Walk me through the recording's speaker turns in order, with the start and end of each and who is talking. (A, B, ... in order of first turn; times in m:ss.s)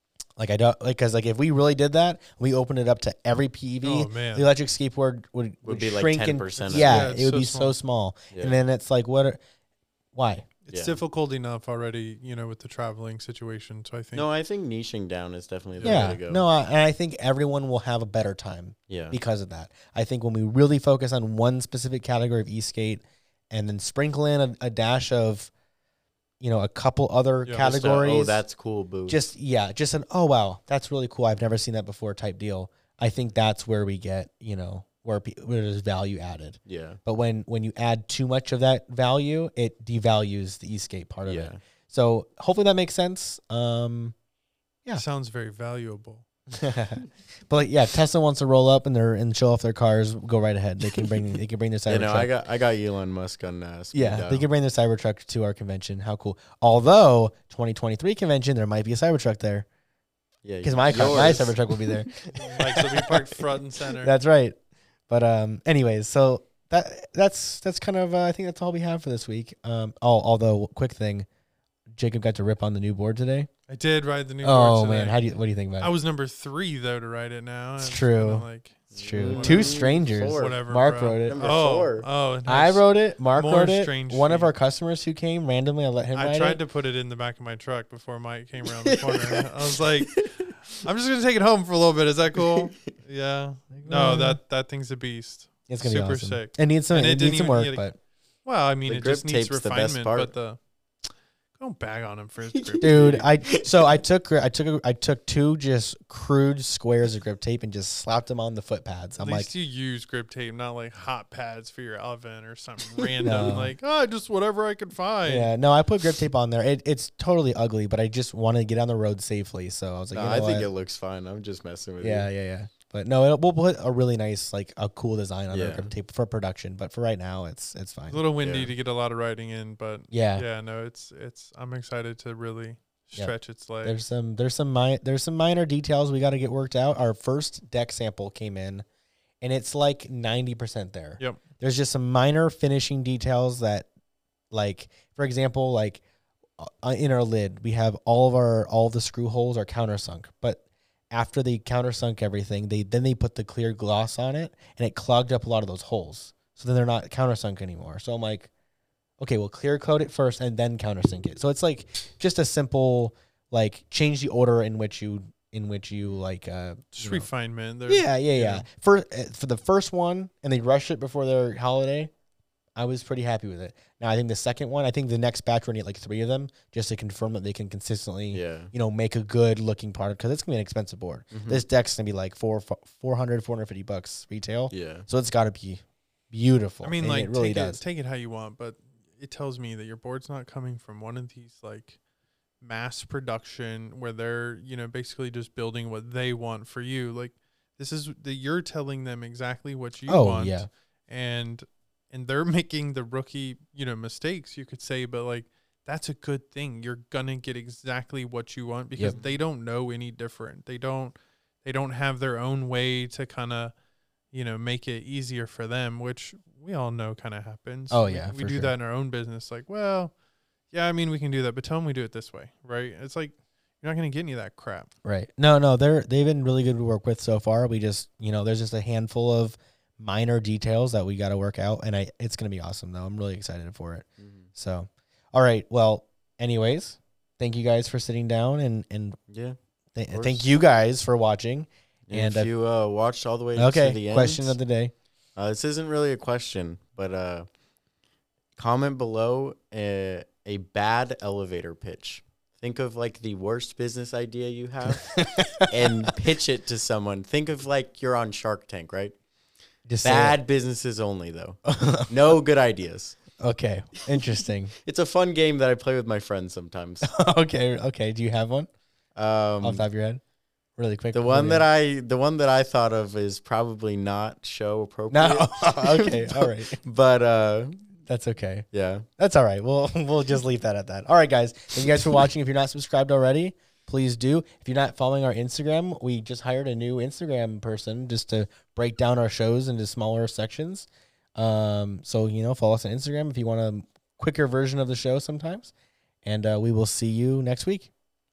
0:00.4-0:09.4 A
0:03.8-0:04.5 B
0:05.6-0:07.1 C
0:06.6-0:07.8 B
0:08.3-0:08.6 C
0:10.1-0:10.5 A
0:10.6-0:14.2 B
0:10.7-0:11.0 C
0:14.1-0:16.4 C
0:15.8-0:16.2 B
0:15.8-0:25.5 A
0:18.9-0:19.2 C
0:26.4-0:28.4 A
0:27.4-0:27.7 B
0:27.6-0:29.2 C
0:29.1-0:44.1 A
0:36.6-0:37.0 C
0:41.2-0:41.6 C
0:44.9-0:46.2 B
0:46.5-0:52.3 A
0:51.9-0:54.4 C
0:53.9-0:59.6 A
1:00.4-1:02.0 C
1:00.6-1:04.6 A
1:02.3-1:04.1 B
1:05.1-1:11.2 A
1:11.9-1:13.5 A
1:13.7-1:15.2 B
1:14.4-1:15.9 A
1:15.8-1:24.5 B
1:17.8-1:21.5 A
1:18.9-1:20.6 C
1:21.2-1:22.1 C
1:22.4-1:26.6 A
1:26.1-1:37.9 B
1:28.9-1:29.4 C
1:30.1-1:30.5 C
1:33.8-1:34.4 A
1:35.7-1:38.0 A
1:38.4-1:40.6 B
1:38.8-1:40.3 C
1:41.6-1:43.3 B
1:42.5-1:43.3 C
1:42.8-1:49.5 A
1:49.2-1:55.5 B
1:53.0-1:53.6 C
1:53.2-1:53.7 A
1:55.2-2:00.7 A
2:00.1-2:02.3 C
2:02.0-2:08.2 A
2:05.5-2:05.9 C
2:08.1-2:14.0 B
2:08.4-2:08.7 C
2:10.1-2:10.4 A
2:13.2-2:18.8 A
2:19.4-2:23.9 A
2:24.5-2:26.0 A
2:26.6-2:38.5 A
2:39.2-2:47.3 A
2:46.9-2:48.6 B
2:47.9-2:52.1 A
2:52.8-3:07.8 A
2:58.3-2:58.7 C
3:01.3-3:01.6 C
3:04.7-3:05.1 C
3:06.8-3:12.0 B
3:12.6-3:33.7 B
3:20.1-3:20.7 A
3:29.0-3:29.4 C
3:34.3-3:40.1 B
3:37.9-3:38.7 A
3:40.7-3:44.9 B
3:45.0-3:59.2 A
3:54.2-3:54.5 C
3:59.3-3:59.6 C
3:59.9-4:02.5 A
4:00.1-4:00.5 C
4:02.1-4:04.6 C
4:03.5-4:04.9 A
4:05.4-4:07.5 C
4:08.6-4:19.1 C
4:14.9-4:16.1 A
4:19.9-4:20.4 A
4:20.0-4:23.2 C
4:21.6-4:22.4 A
4:23.4-4:24.7 A
4:24.8-4:27.1 C
4:27.0-4:28.7 A
4:29.2-4:29.8 C
4:29.6-4:30.2 A
4:30.8-4:31.6 A
4:31.1-4:37.8 C
4:35.1-4:36.8 A
4:38.1-4:38.6 A
4:38.7-4:39.0 C
4:39.2-4:55.7 A
4:56.2-4:57.9 A